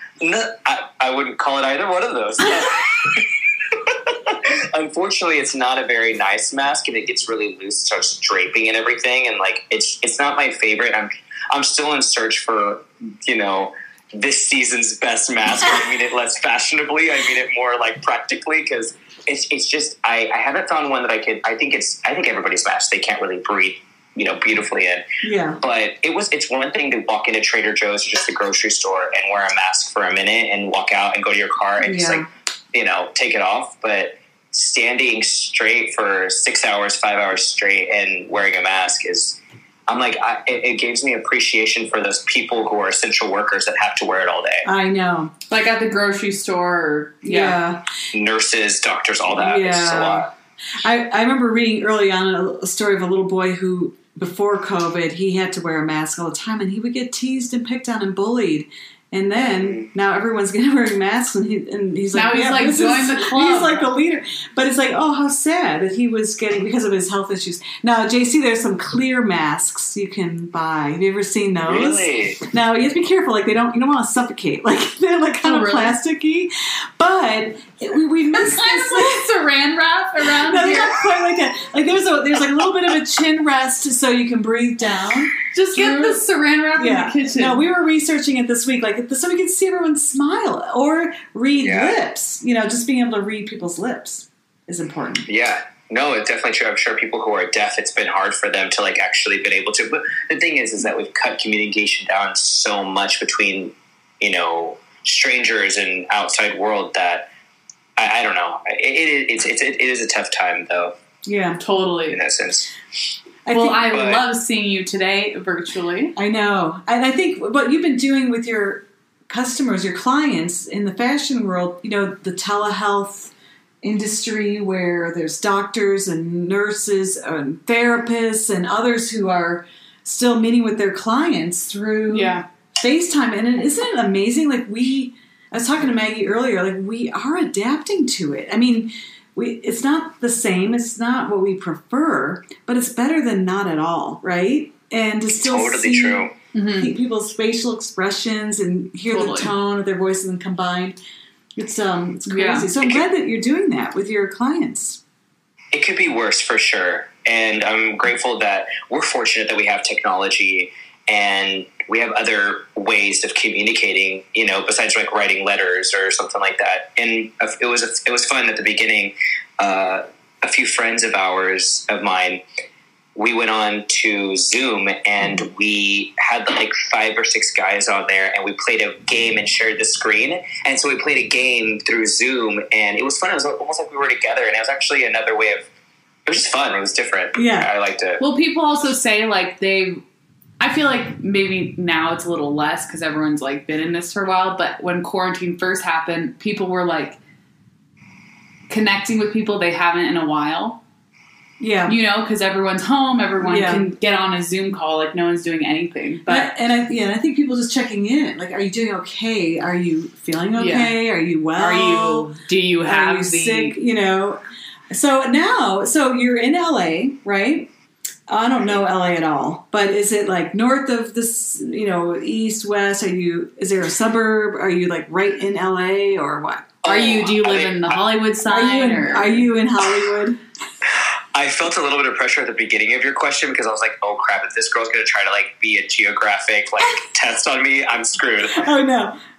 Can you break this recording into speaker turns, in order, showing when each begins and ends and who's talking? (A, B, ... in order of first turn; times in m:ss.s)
0:00.2-0:25.0 A
0:25.2-0:25.6 B
0:25.6-0:44.7 A
0:31.8-0:32.2 B
0:44.6-0:45.3 B
0:45.5-0:47.6 C
0:47.2-0:47.9 B
0:48.1-0:50.3 A
0:49.3-1:19.3 B
1:02.1-1:03.8 C
1:11.6-1:12.4 A
1:15.4-1:16.0 C
1:18.3-1:21.0 C
1:20.4-1:26.2 B
1:25.5-1:27.6 C
1:26.8-1:35.2 B
1:31.6-1:32.0 A
1:35.3-1:47.3 A
1:48.0-1:50.9 A
1:51.2-1:51.6 B
1:51.6-1:52.2 C
1:52.1-1:52.7 A
1:53.4-1:53.9 B
1:53.5-1:56.2 C
1:53.8-1:54.2 A
1:56.2-2:31.0 B
2:12.1-2:12.4 C
2:25.3-2:26.3 A
2:26.5-2:26.9 C
2:29.1-2:29.5 C
2:31.6-2:35.0 B
2:32.3-2:32.7 C
2:32.8-2:33.1 A
2:35.7-2:52.4 A
2:53.1-3:05.7 A
3:06.2-3:08.2 A
3:07.3-3:07.7 B
3:08.2-3:10.0 C
3:10.6-3:17.2 C
3:18.7-3:20.8 C
3:21.6-3:22.0 B
3:21.9-3:26.5 C
3:23.4-3:23.9 B
3:26.3-3:34.4 B
3:30.6-3:31.0 C
3:31.5-3:33.8 C
3:34.9-3:37.7 B
3:38.3-3:46.8 B
3:46.8-3:48.0 A
3:46.8-3:49.5 C
3:48.4-3:50.4 B
3:51.3-3:58.6 A
3:58.5-3:59.2 B